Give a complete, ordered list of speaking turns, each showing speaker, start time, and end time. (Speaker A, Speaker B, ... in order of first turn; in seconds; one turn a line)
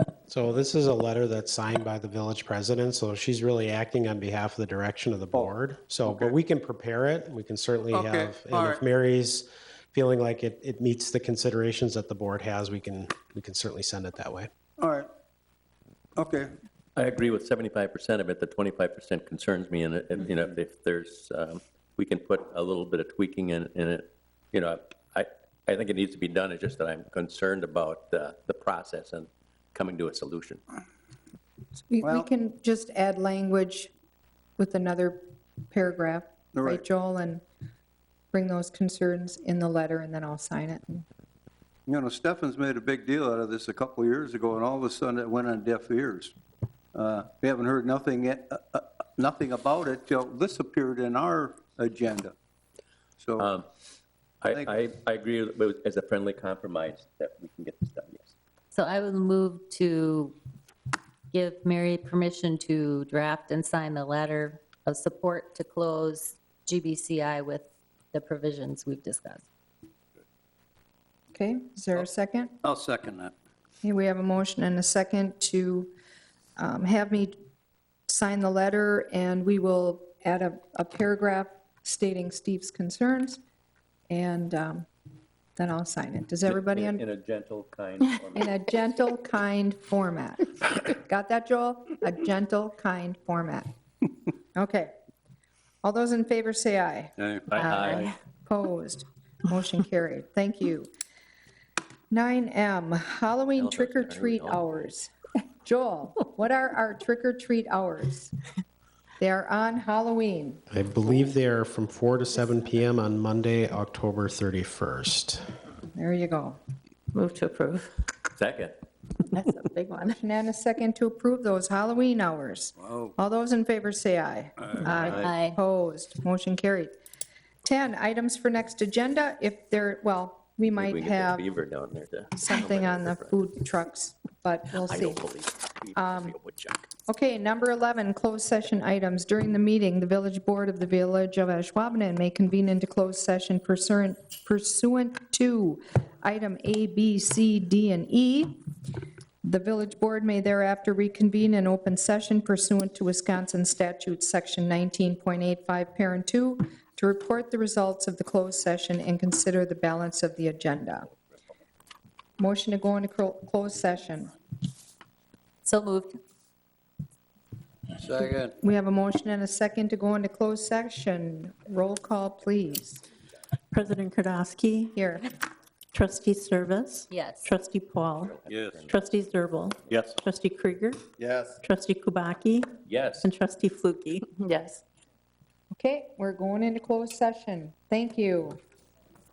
Speaker A: 0.3-14.5
Speaker B: 6.1-6.3
Speaker B: 7.9-8.8
Speaker B: 14.8-15.1
Speaker B: 16.2-16.5
Speaker C: 16.9-30.6
Speaker D: 31.9-33.9
Speaker D: 34.6-37.4
Speaker B: 36.5-36.8
Speaker D: 38.3-41.0
Speaker B: 41.9-46.3
Speaker B: 46.9-52.3
Speaker B: 53.2-53.5
Speaker C: 53.4-53.6
Speaker C: 54.4-58.3
Speaker B: 54.5-54.8
Speaker E: 58.7-60.4
Speaker E: 61.3-69.4
Speaker D: 71.3-72.6
Speaker B: 72.6-73.3
Speaker D: 73.8-75.9
Speaker D: 76.5-77.3
Speaker D: 78.1-83.4
Speaker D: 84.1-84.9
Speaker D: 85.6-87.0
Speaker C: 86.5-88.6
Speaker D: 88.3-93.7
Speaker D: 94.5-94.9
Speaker D: 95.8-97.1
Speaker B: 97.2-98.1
Speaker C: 97.5-98.1
Speaker E: 97.6-98.0
Speaker D: 98.4-100.9
Speaker D: 102.1-105.1
Speaker C: 103.5-104.8
Speaker D: 105.6-108.3
Speaker D: 109.2-110.6
Speaker A: 110.7-115.5
Speaker D: 115.9-116.6
Speaker E: 117.2-117.8
Speaker C: 118.3-118.8
Speaker E: 119.3-120.1
Speaker D: 120.2-126.9
Speaker B: 122.8-123.1
Speaker B: 124.6-125.3
Speaker E: 124.9-125.6
Speaker D: 127.6-131.4
Speaker C: 130.8-133.3
Speaker D: 132.3-135.2
Speaker C: 134.7-136.9
Speaker D: 135.9-136.3
Speaker D: 137.1-148.6
Speaker D: 149.4-161.1
Speaker D: 162.4-164.3
Speaker E: 165.6-166.2
Speaker B: 167.9-168.6
Speaker D: 168.6-173.0
Speaker F: 173.7-175.0
Speaker D: 174.9-175.3
Speaker F: 175.9-181.0
Speaker E: 177.1-177.5
Speaker C: 178.2-179.0
Speaker B: 178.5-178.8
Speaker C: 179.9-180.2
Speaker B: 181.2-181.5
Speaker F: 181.6-184.2
Speaker C: 182.8-183.3
Speaker E: 184.5-184.8
Speaker D: 185.7-188.6